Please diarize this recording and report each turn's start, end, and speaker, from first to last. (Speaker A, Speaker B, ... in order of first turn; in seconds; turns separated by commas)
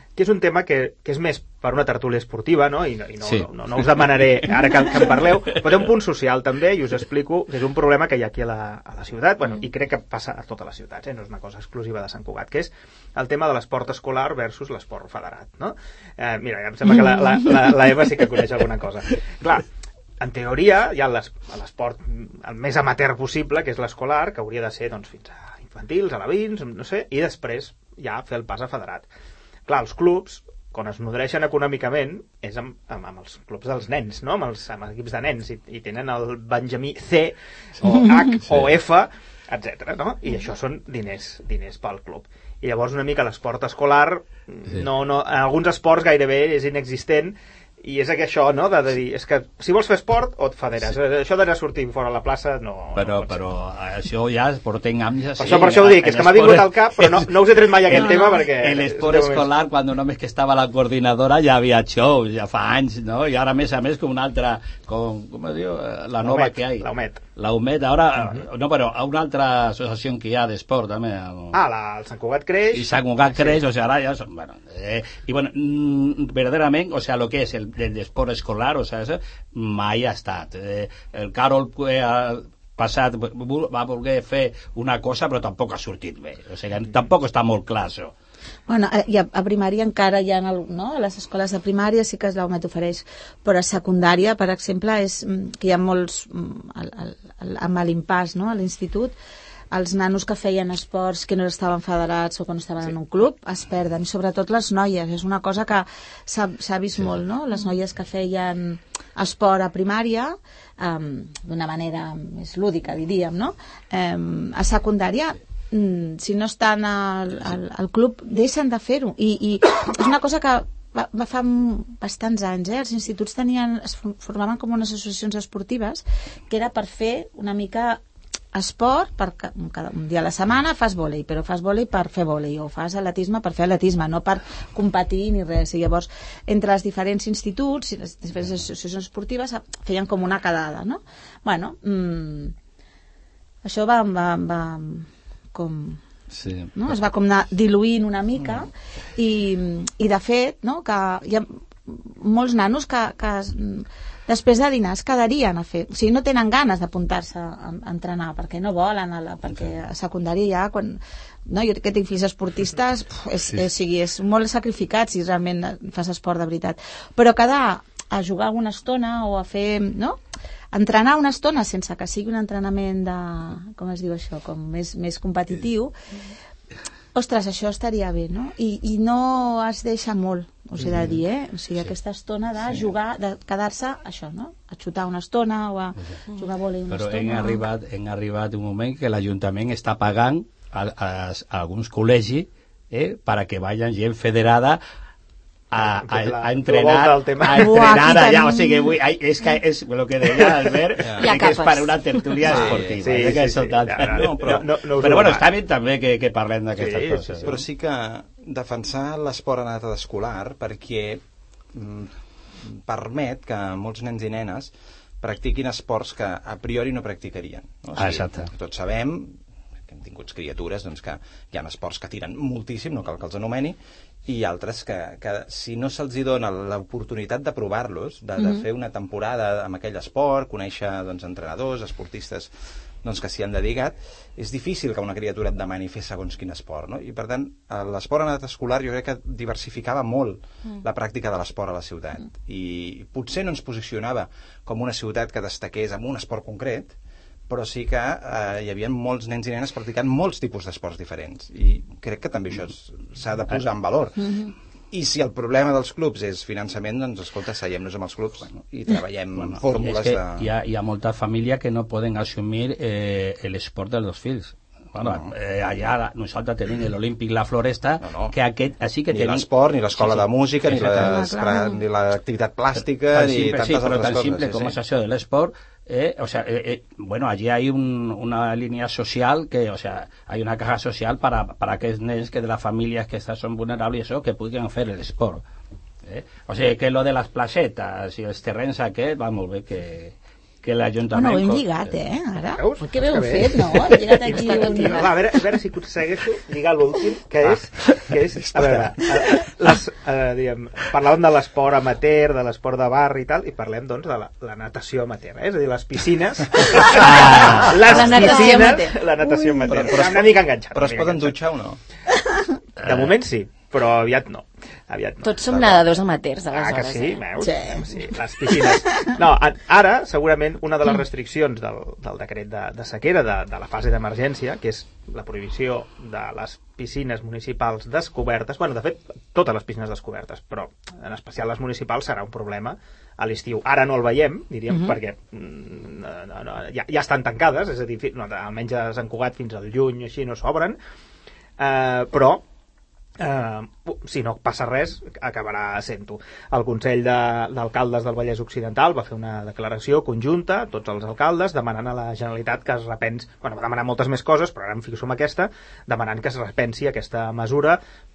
Speaker A: 0.2-19.7, Speaker B: 3.2-5.6, Speaker A: 20.2-29.1, Speaker A: 29.7-53.4, Speaker B: 37.8-38.7, Speaker B: 53.0-57.3, Speaker A: 55.4-59.5, Speaker B: 57.8-71.6, Speaker C: 57.9-58.4, Speaker A: 66.2-67.2, Speaker A: 68.2-68.4, Speaker A: 71.5-73.6, Speaker B: 72.7-88.1, Speaker C: 88.7-99.2, Speaker C: 99.7-128.0, Speaker C: 128.5-142.5, Speaker C: 143.6-146.0, Speaker B: 146.3-146.8, Speaker C: 146.8-170.2, Speaker C: 170.7-175.9, Speaker C: 177.1-187.7, Speaker B: 180.8-181.2, Speaker B: 186.9-194.8, Speaker B: 195.7-207.6, Speaker A: 195.8-198.1, Speaker C: 197.5-198.9, Speaker A: 200.4-200.8, Speaker D: 201.0-201.3, Speaker E: 201.2-202.4, Speaker D: 202.4-203.4, Speaker A: 202.9-205.5, Speaker D: 204.1-204.7, Speaker A: 206.8-207.6, Speaker D: 207.4-232.5, Speaker B: 218.0-218.5, Speaker D: 233.0-247.0, Speaker D: 247.5-260.5, Speaker B: 259.4-271.1, Speaker D: 265.0-265.3, Speaker D: 268.0-268.4, Speaker D: 269.1-274.8, Speaker C: 270.9-271.8, Speaker B: 273.1-285.4, Speaker B: 286.0-292.0, Speaker C: 291.1-295.2, Speaker A: 292.6-311.4, Speaker E: 294.3-295.0, Speaker D: 298.6-299.1, Speaker B: 306.9-307.7, Speaker E: 307.6-308.9, Speaker C: 307.7-309.7, Speaker D: 309.7-311.8, Speaker A: 312.8-315.6, Speaker E: 315.2-317.2, Speaker A: 316.5-340.8, Speaker C: 317.4-317.9, Speaker A: 341.6-342.4, Speaker A: 343.2-357.8